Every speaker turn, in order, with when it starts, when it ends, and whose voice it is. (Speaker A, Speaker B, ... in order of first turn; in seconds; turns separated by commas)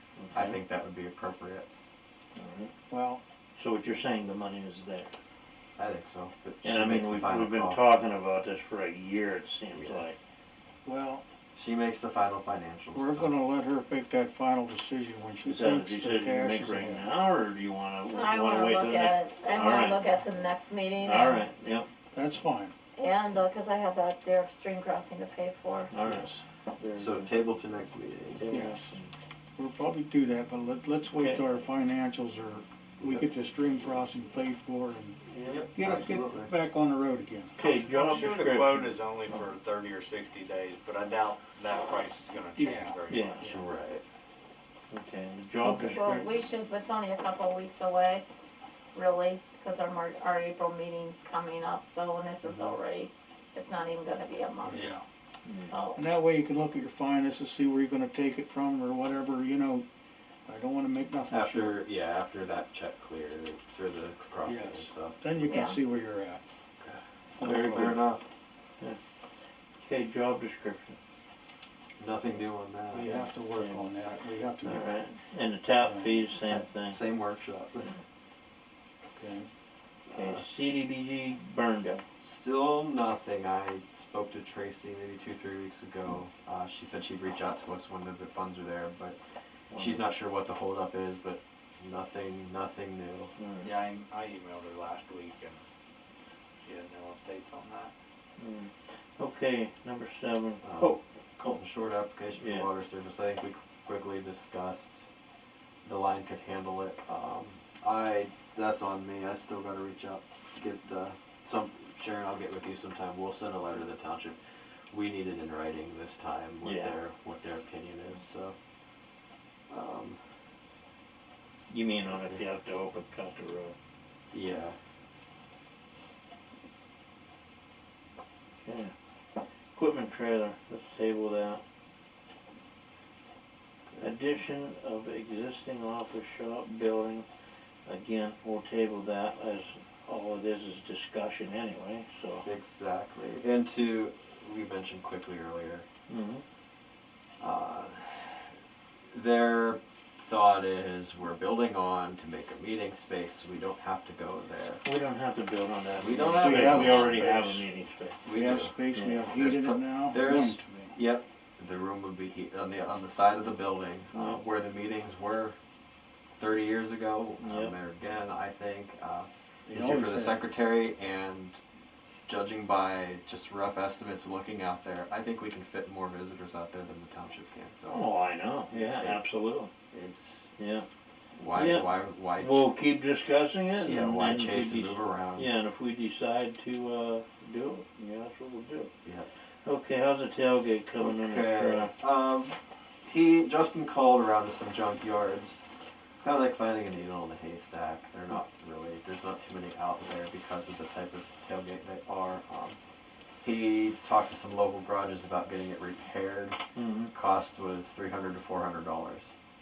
Speaker A: 0.2-0.6, Speaker B: 0.3-1.7, Speaker A: 2.3-2.7, Speaker C: 2.9-3.2, Speaker A: 3.6-5.1, Speaker B: 5.8-7.8, Speaker A: 6.6-10.2, Speaker B: 9.7-10.0, Speaker C: 10.8-11.2, Speaker B: 11.5-13.3, Speaker C: 12.9-17.1, Speaker A: 15.4-20.1, Speaker D: 18.1-21.4, Speaker A: 21.0-21.9, Speaker C: 22.1-22.7, Speaker D: 22.9-25.9, Speaker A: 25.9-27.3, Speaker B: 26.9-28.7, Speaker A: 28.4-29.1, Speaker C: 28.5-28.9, Speaker C: 29.6-35.2, Speaker A: 31.1-31.5, Speaker B: 33.0-33.2, Speaker A: 35.3-35.6, Speaker B: 35.4-36.5, Speaker C: 35.7-37.5, Speaker A: 37.5-39.0, Speaker E: 37.6-43.6, Speaker C: 42.5-43.0, Speaker A: 43.1-43.5, Speaker B: 43.4-44.0, Speaker A: 44.9-46.0, Speaker C: 45.6-46.3, Speaker D: 45.9-48.2, Speaker D: 48.9-54.9, Speaker C: 54.6-55.0, Speaker A: 55.5-55.7, Speaker D: 55.6-56.0, Speaker C: 56.0-59.9, Speaker C: 60.5-61.8, Speaker B: 61.3-65.6, Speaker C: 64.4-66.4, Speaker D: 65.4-65.8, Speaker B: 66.8-68.2, Speaker C: 67.4-68.0, Speaker A: 67.4-68.0, Speaker A: 69.8-71.0, Speaker B: 72.0-73.3, Speaker C: 72.9-74.9, Speaker A: 73.5-73.9, Speaker A: 74.6-77.0, Speaker C: 75.8-76.2, Speaker B: 76.4-78.0, Speaker C: 79.1-79.5, Speaker B: 80.1-80.4, Speaker A: 80.1-82.0, Speaker B: 82.2-89.2, Speaker A: 89.7-90.0, Speaker B: 89.7-93.3, Speaker A: 93.4-93.7, Speaker E: 93.6-95.6, Speaker E: 96.6-97.9, Speaker A: 98.4-101.6, Speaker B: 100.6-105.1, Speaker A: 102.4-102.7, Speaker B: 105.8-114.4, Speaker B: 114.9-118.5, Speaker A: 116.6-117.0, Speaker B: 119.7-120.2, Speaker A: 121.7-123.7, Speaker B: 122.1-122.4, Speaker B: 124.3-124.8, Speaker A: 128.6-128.9, Speaker A: 129.7-131.6, Speaker A: 134.0-137.2, Speaker A: 137.8-142.4, Speaker B: 142.4-145.9, Speaker A: 146.1-146.4, Speaker B: 147.4-148.5, Speaker B: 149.1-154.8, Speaker A: 154.8-158.2, Speaker B: 156.0-157.7, Speaker C: 156.4-157.4, Speaker B: 158.2-165.6, Speaker C: 158.3-161.0, Speaker A: 158.9-159.2, Speaker A: 164.1-164.4, Speaker B: 166.4-171.6, Speaker A: 167.4-167.7, Speaker C: 169.7-170.4, Speaker B: 172.3-178.1, Speaker A: 177.9-179.7, Speaker B: 178.7-179.2, Speaker B: 179.9-180.5, Speaker A: 180.6-180.8, Speaker B: 181.3-182.7, Speaker A: 181.5-188.9, Speaker B: 183.8-185.5, Speaker A: 189.6-191.9, Speaker B: 191.0-202.8, Speaker B: 203.4-206.6, Speaker A: 206.7-207.1, Speaker B: 207.1-209.3